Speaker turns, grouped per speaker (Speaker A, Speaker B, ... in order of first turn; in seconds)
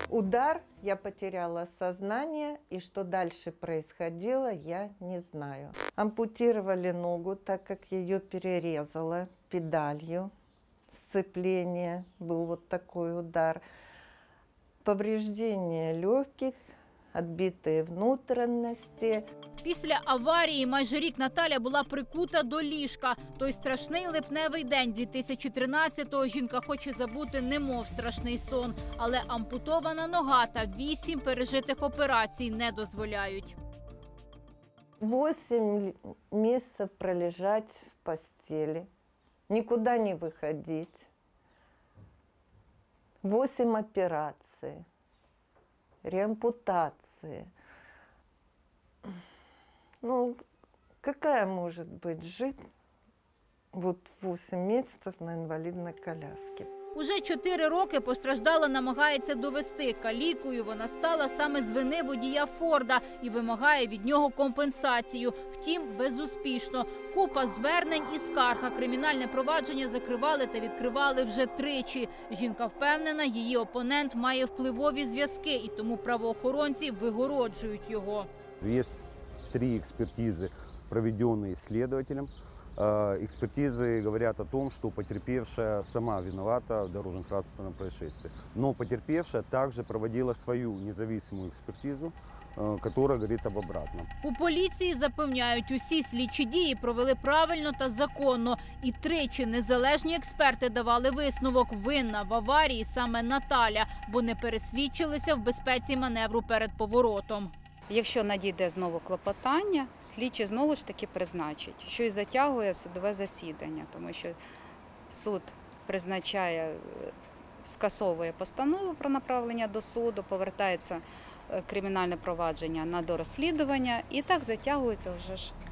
Speaker A: 0.1-10.3, 10.9-13.6, 14.8-16.6, 17.1-19.2, 35.0-38.9, 39.5-41.1, 43.2-44.8, 46.0-47.5, 50.0-50.4, 51.0-52.6, 53.7-56.7
Speaker B: 19.6-33.5, 56.9-78.3, 94.2-107.5
Speaker C: 78.6-78.9, 79.5-94.1
Speaker D: 107.9-114.4, 115.1-125.5